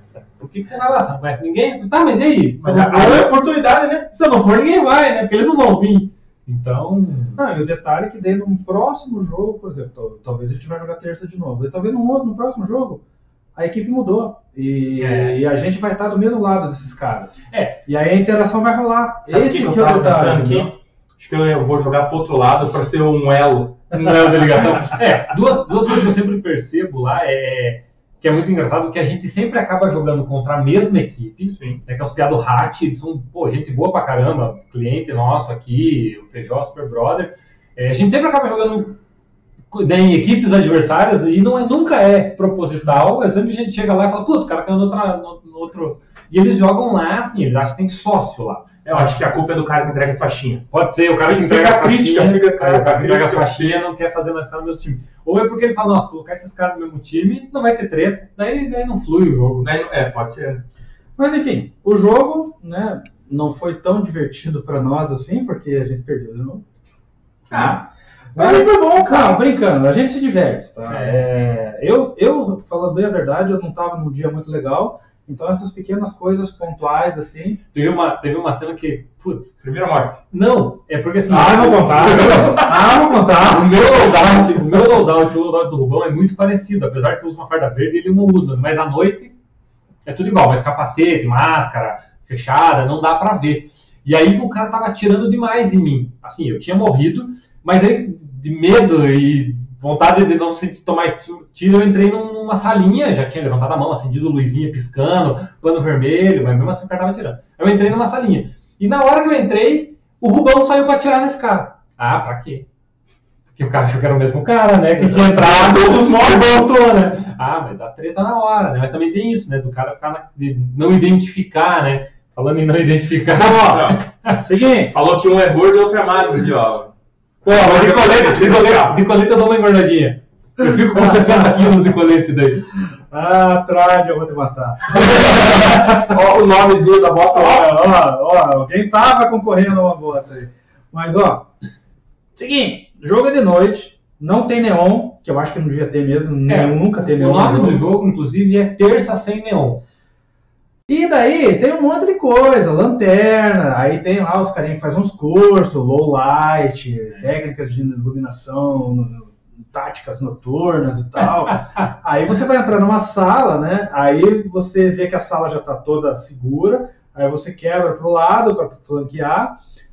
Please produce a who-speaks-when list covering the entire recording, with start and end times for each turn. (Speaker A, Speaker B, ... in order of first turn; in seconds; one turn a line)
Speaker A: 0.4-3.5
Speaker B: 2.6-4.1
Speaker A: 4.1-7.4
Speaker C: 7.3-13.0
Speaker C: 13.5-20.7
Speaker A: 15.0-15.4
Speaker A: 17.5-17.8
Speaker B: 19.2-24.8
Speaker A: 23.9-39.0
Speaker B: 31.4-31.8
Speaker A: 39.7-49.2
Speaker B: 48.8-50.7
Speaker A: 50.7-59.7
Speaker B: 51.2-53.8
Speaker B: 59.6-60.6
Speaker C: 61.2-66.6
Speaker C: 67.5-77.6
Speaker B: 67.5-67.8
Speaker B: 68.3-69.3
Speaker A: 70.9-71.2
Speaker A: 77.7-79.5
Speaker B: 79.6-80.2
Speaker A: 80.3-82.7
Speaker C: 81.3-84.0
Speaker B: 82.2-82.7
Speaker A: 83.5-89.3
Speaker A: 90.0-112.7
Speaker A: 113.5-124.6
Speaker B: 115.2-116.7
Speaker C: 123.3-124.9
Speaker B: 123.4-124.0
Speaker B: 124.9-126.9
Speaker A: 127.4-132.7
Speaker B: 127.5-129.0
Speaker C: 130.6-131.9
Speaker C: 132.7-136.1
Speaker B: 135.0-138.0
Speaker C: 137.3-141.5
Speaker C: 142.3-147.8
Speaker A: 146.4-149.8
Speaker C: 150.9-169.6
Speaker A: 161.2-161.9